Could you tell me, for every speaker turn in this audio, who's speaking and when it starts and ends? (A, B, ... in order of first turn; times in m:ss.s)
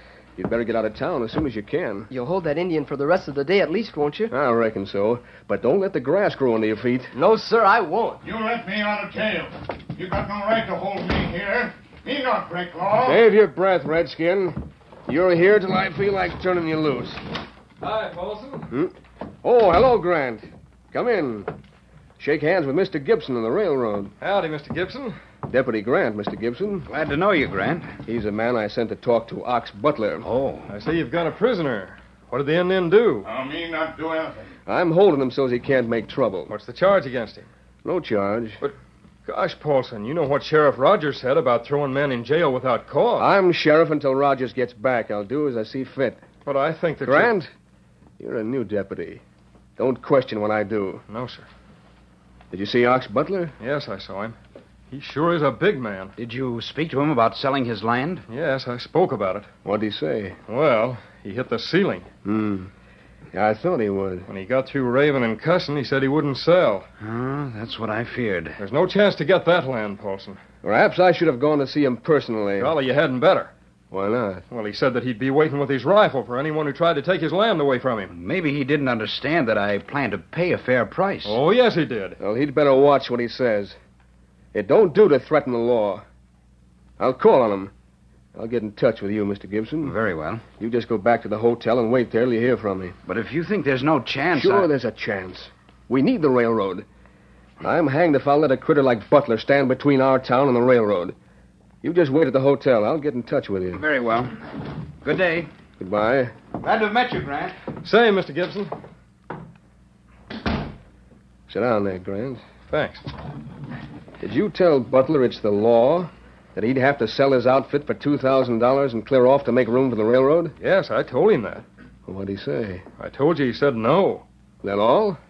0:00.4-0:02.1 A
0:02.1-0:04.3 B
0:04.3-0:07.1 A
0:07.1-0:08.2 B
0:08.2-0:13.2 C
0:13.0-0:17.2 A
0:17.8-0:18.7 D
0:18.7-0:21.5 A
0:22.2-0:24.1 A
0:24.2-0:25.2 D
0:25.5-0:26.9 A
0:26.9-0:28.0 E
0:28.0-0:30.3 A
0:30.2-0:30.7 E
0:30.7-0:33.3 D
0:33.2-0:34.5 C
0:34.7-0:36.5 A
0:36.5-0:37.5 D
0:37.8-0:38.6 A
0:39.2-0:43.3 D
0:43.2-0:46.2 A
0:46.4-0:47.3 D
0:47.0-0:47.5 A
0:48.2-0:49.2 A
0:49.8-0:51.0 A
0:51.1-0:51.4 D
0:52.5-0:53.5 A
0:53.6-0:54.4 D
0:54.9-0:56.1 D
0:56.2-0:58.2 E
0:58.3-0:59.5 D
0:59.6-1:00.4 A
1:00.5-1:02.1 D
1:02.2-1:02.7 A
1:03.3-1:04.3 A
1:04.3-1:06.9 D
1:07.0-1:08.6 E
1:08.6-1:10.4 D
1:10.6-1:12.7 A
1:12.6-1:13.5 D
1:13.9-1:14.4 A
1:14.5-1:18.1 D
1:18.1-1:21.4 E
1:21.2-1:22.2 D
1:22.2-1:23.8 A
1:24.5-1:26.0 A
1:27.0-1:27.7 A
1:28.3-1:30.0 A
1:29.8-1:30.4 E
1:30.6-1:33.0 A
1:33.0-1:34.7 E
1:34.3-1:36.8 A
1:37.6-1:41.1 A
1:41.8-1:43.8 A
1:43.7-1:45.5 E
1:45.8-1:46.3 A
1:46.6-1:47.6 E
1:47.8-1:48.7 D
1:51.5-1:52.4 A
1:52.7-1:53.0 D
1:54.2-2:00.6 A
2:00.6-2:01.6 D
2:02.1-2:02.8 A
2:03.0-2:04.2 D
2:04.6-2:05.2 A